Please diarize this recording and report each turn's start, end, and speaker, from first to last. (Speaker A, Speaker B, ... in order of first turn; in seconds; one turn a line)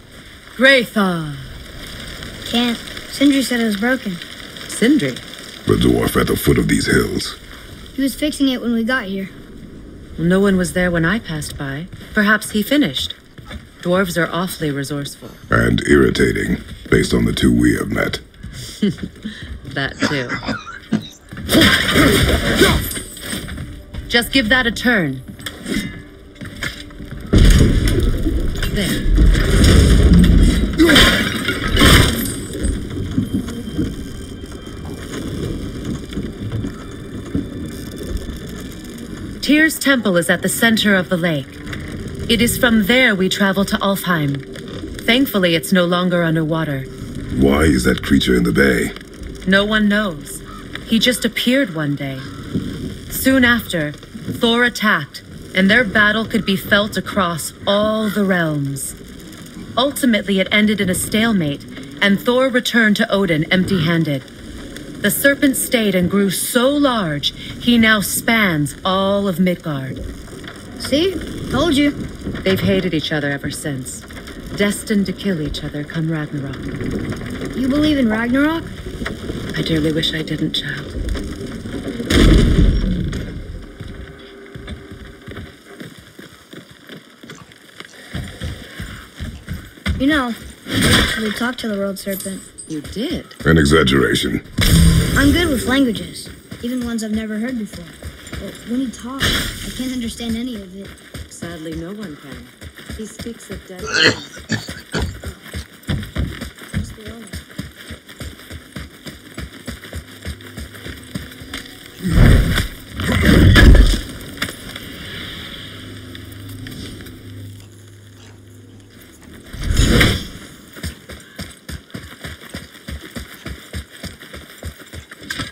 Speaker A: 0.6-1.5
Speaker B: 2.5-4.2
Speaker A: 4.7-5.2
Speaker C: 5.7-7.4
Speaker B: 8.0-9.3
Speaker A: 10.2-13.2
Speaker A: 13.8-15.4
Speaker C: 15.5-18.2
Speaker A: 19.7-20.4
Speaker A: 24.1-25.2
Speaker A: 28.7-29.1
Speaker A: 39.4-41.6
Speaker A: 42.3-44.5
Speaker A: 45.0-46.9
Speaker C: 47.3-48.9
Speaker A: 49.4-52.3
Speaker A: 53.1-59.0
Speaker A: 59.8-64.3
Speaker A: 65.0-70.0
Speaker B: 70.8-72.0
Speaker A: 72.4-76.7
Speaker B: 77.5-78.7
Speaker A: 79.5-80.9
Speaker B: 90.0-90.4
Speaker B: 90.9-92.4
Speaker A: 92.7-93.4
Speaker C: 93.4-94.4
Speaker B: 95.2-100.9
Speaker A: 101.3-104.3
Speaker B: 106.7-107.4